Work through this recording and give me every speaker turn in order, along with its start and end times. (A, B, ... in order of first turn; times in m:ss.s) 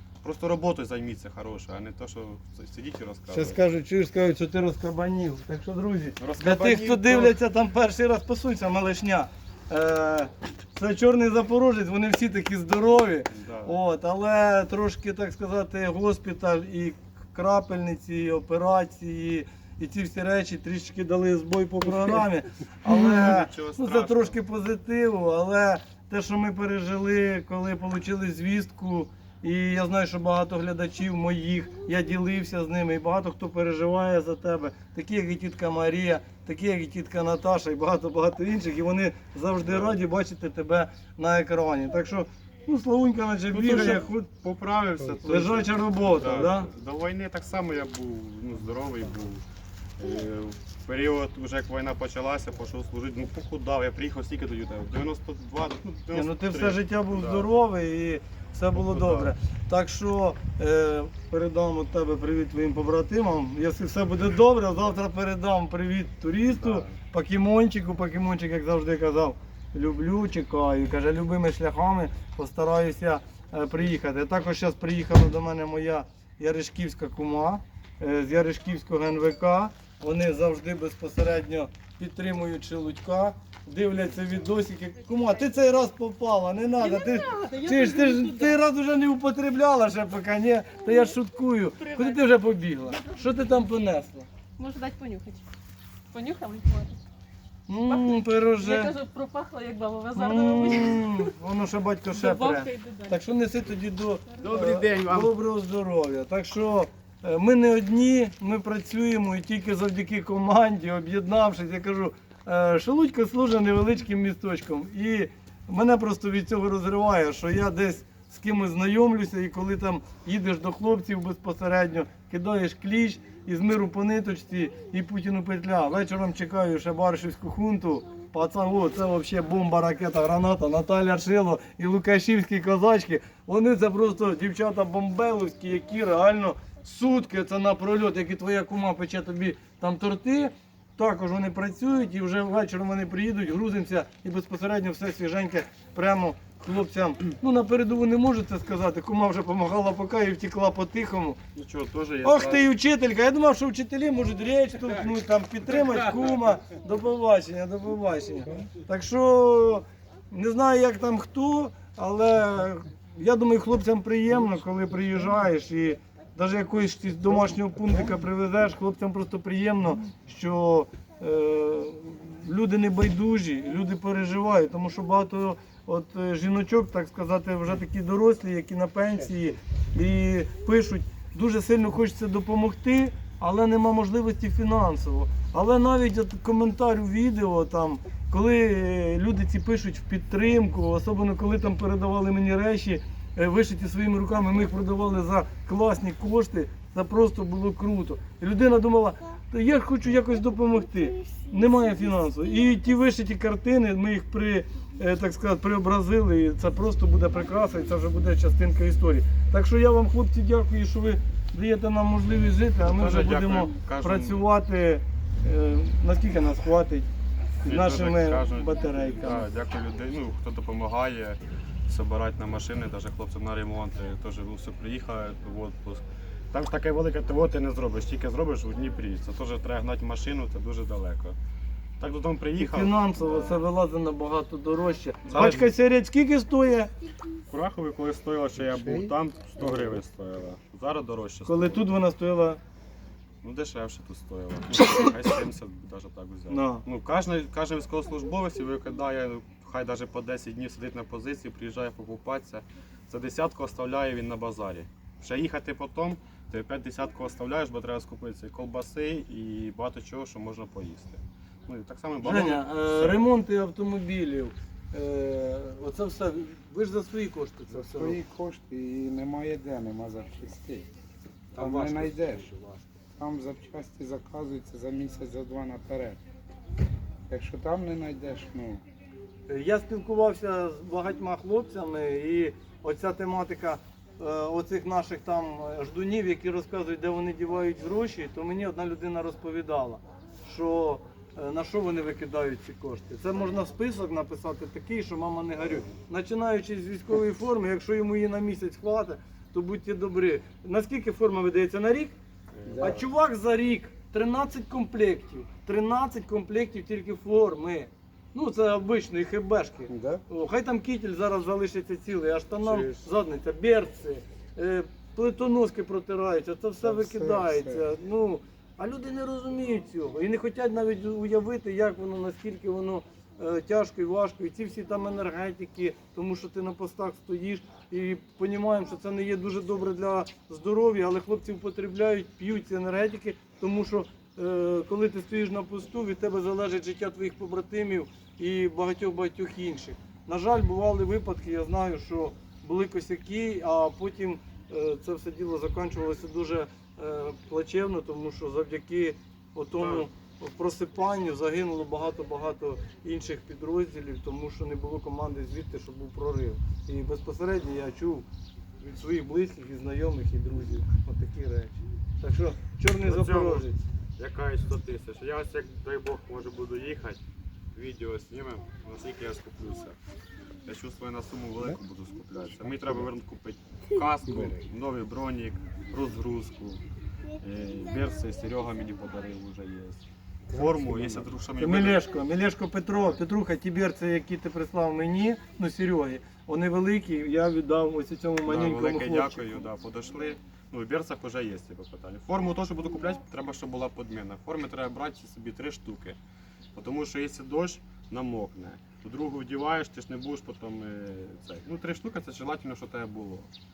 0:00.2-0:03.6 A
0:03.3-0:44.3 B
0:06.2-0:07.4 A
0:13.3-0:13.8 A
0:22.9-0:24.4 A
0:39.6-0:40.0 A
0:43.5-0:49.4 A
0:45.2-0:46.7 B
0:50.0-0:57.5 A
0:56.1-1:34.3 B
0:58.7-0:59.3 A
1:06.5-1:07.0 A
1:26.8-1:28.6 C
1:31.8-1:32.3 C
1:34.6-1:35.4 C
1:36.1-1:37.0 C
1:37.7-1:39.0 B
1:37.9-1:41.3 C
1:40.1-2:31.4 B
1:42.1-1:43.2 C
1:44.5-1:45.3 A
2:31.6-2:32.6 A
2:32.2-3:37.1 B
3:32.8-3:34.4 A
3:37.6-3:39.4 B
3:37.6-3:51.4 A
3:52.0-3:53.6 A
3:52.6-3:56.9 B
3:55.3-3:55.7 A
3:57.5-4:01.9 A
3:58.6-3:59.1 D
4:01.4-4:02.6 B
4:03.4-4:23.2 A
4:06.5-4:06.8 B
4:22.2-4:28.2 B
4:27.7-4:30.9 D
4:31.6-4:32.5 D
4:31.6-4:32.8 B
4:33.2-4:36.2 D
4:37.3-4:38.8 D
4:39.5-5:02.2 B
5:02.6-5:03.0 A
5:02.6-5:03.0 D
5:02.8-5:58.3 B
5:09.9-5:10.2 D
5:12.6-5:13.0 A
5:16.8-5:17.8 D
5:49.8-5:50.1 A
5:58.8-6:03.8 B
6:03.0-6:03.7 A
6:04.2-6:07.2 A
6:07.7-6:10.0 A
6:10.7-6:16.8 A
6:12.7-6:13.1 D
6:14.2-6:14.6 D
6:17.4-6:22.0 A
6:20.5-6:21.3 D
6:21.6-6:29.6 B
6:28.5-6:36.2 A
6:36.8-6:43.5 A